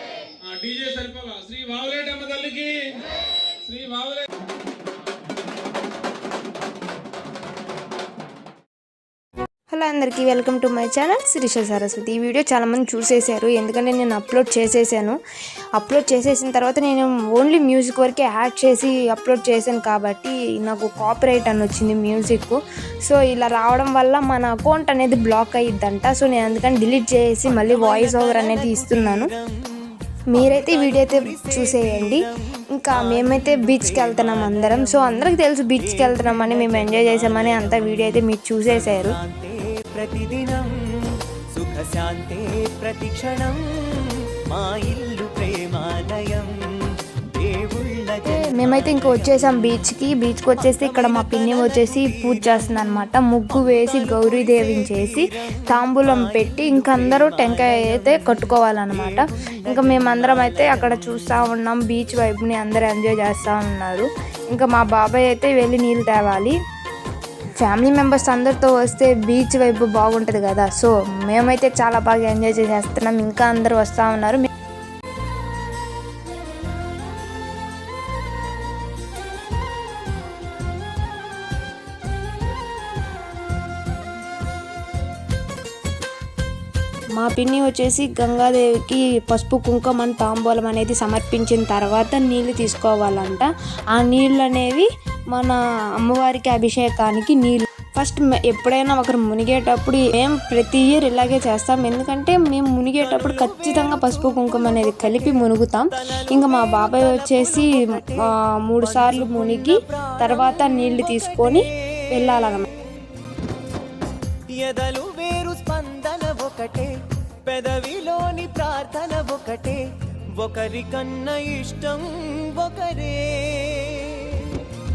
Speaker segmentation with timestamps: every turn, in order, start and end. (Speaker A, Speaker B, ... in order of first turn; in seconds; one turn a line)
Speaker A: 0.4-3.0
Speaker A: 3.6-4.3
Speaker B: 9.7-15.2
Speaker B: 15.8-29.3
Speaker C: 27.4-49.7
Speaker B: 30.3-39.2
Speaker B: 48.2-66.5
Speaker C: 50.6-61.5
Speaker B: 67.6-74.5
Speaker B: 87.2-112.7
Speaker C: 103.0-112.7
Speaker C: 114.5-124.7